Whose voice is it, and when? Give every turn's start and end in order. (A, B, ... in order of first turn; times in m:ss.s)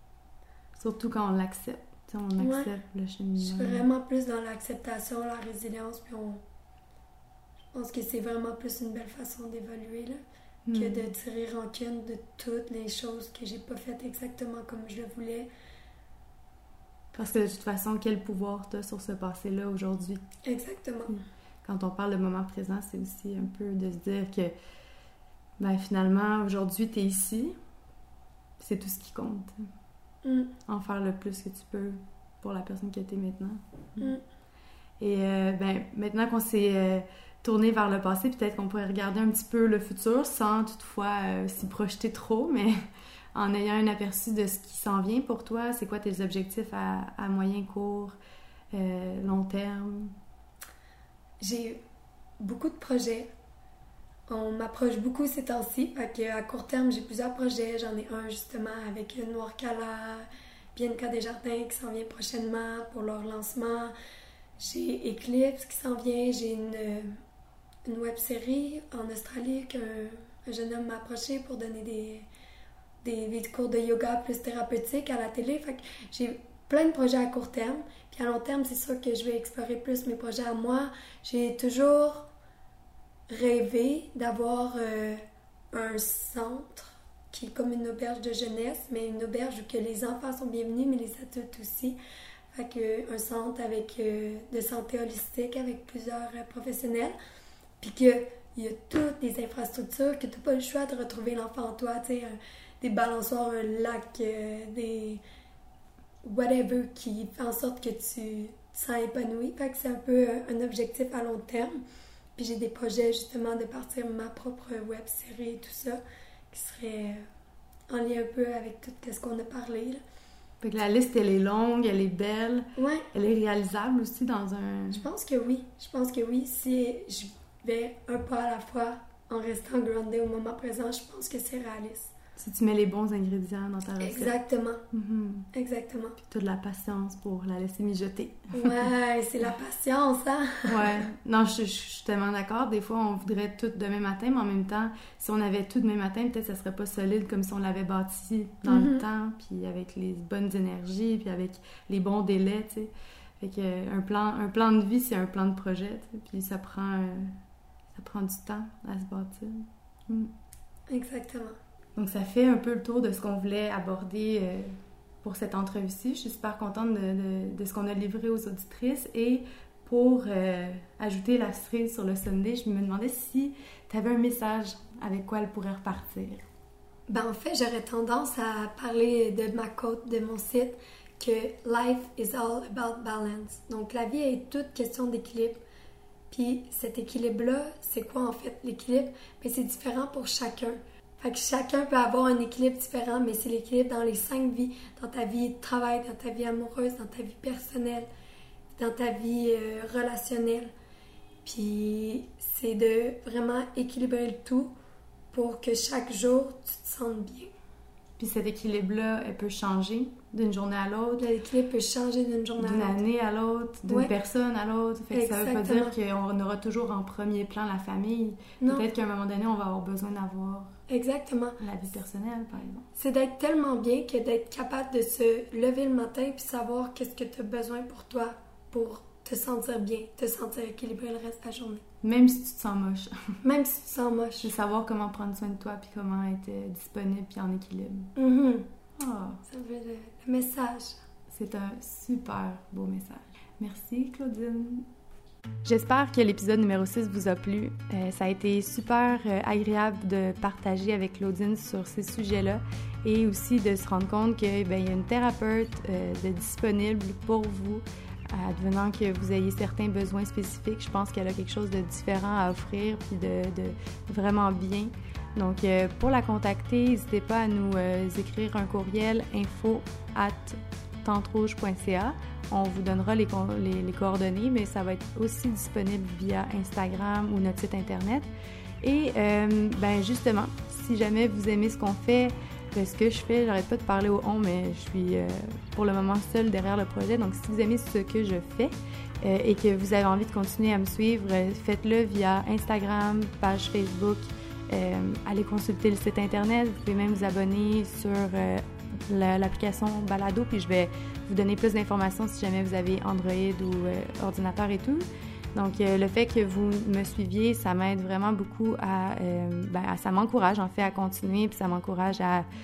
0:00.8-0:03.9 A
0:02.4-0:02.7 B
0:03.4-0:06.4 B
0:07.7-0:10.2 B
0:10.6-0:11.1 A
0:10.7-0:15.5 B
0:17.1-0:20.2 A
0:20.4-0:21.2 B
0:21.1-0:24.5 A
0:25.6-0:27.6 A
0:28.6-0:29.7 A
0:30.2-0:30.5 B
0:30.7-0:34.1 A
0:35.0-0:42.8 A
0:43.4-0:48.2 A
0:48.7-0:50.2 A
0:51.4-0:51.8 B
0:52.4-0:53.3 B
0:54.3-1:03.9 B
1:04.6-1:07.2 B
1:07.9-1:12.3 B
1:13.0-1:22.3 B
1:23.3-1:32.0 B
1:32.5-1:37.2 B
1:37.8-1:45.2 B
1:46.2-1:51.8 B
1:52.4-1:56.0 B
1:56.5-1:57.2 B
1:57.9-2:00.0 B
2:00.6-2:05.1 A
2:02.8-2:03.1 B
2:04.9-2:12.1 B
2:12.4-2:14.4 A
2:14.0-2:14.8 B
2:14.9-2:15.5 A
2:15.5-2:16.2 B
2:16.2-2:18.8 A
2:18.5-2:21.0 B
2:20.6-2:37.4 A
2:28.6-2:29.0 B
2:37.9-2:40.3 A
2:40.9-2:41.6 B
2:42.0-2:56.4 A
2:57.1-3:05.6 B
3:06.3-3:18.1 B
3:18.8-3:20.7 B
3:21.4-3:24.7 B
3:25.3-3:27.5 B
3:28.2-3:31.3 A
3:31.2-3:33.0 B
3:32.6-3:40.8 A
3:35.1-3:36.0 B
3:38.6-3:38.9 B
3:40.9-3:41.6 B
3:41.6-3:42.9 A
3:43.0-3:51.8 B
3:52.0-3:53.4 A
3:53.4-3:54.5 B
3:54.4-3:58.1 A
3:58.2-3:58.7 B
3:59.0-3:59.4 A
3:59.4-4:01.0 B
4:01.3-4:04.9 A
4:05.6-4:38.3 A
4:38.8-5:12.5 A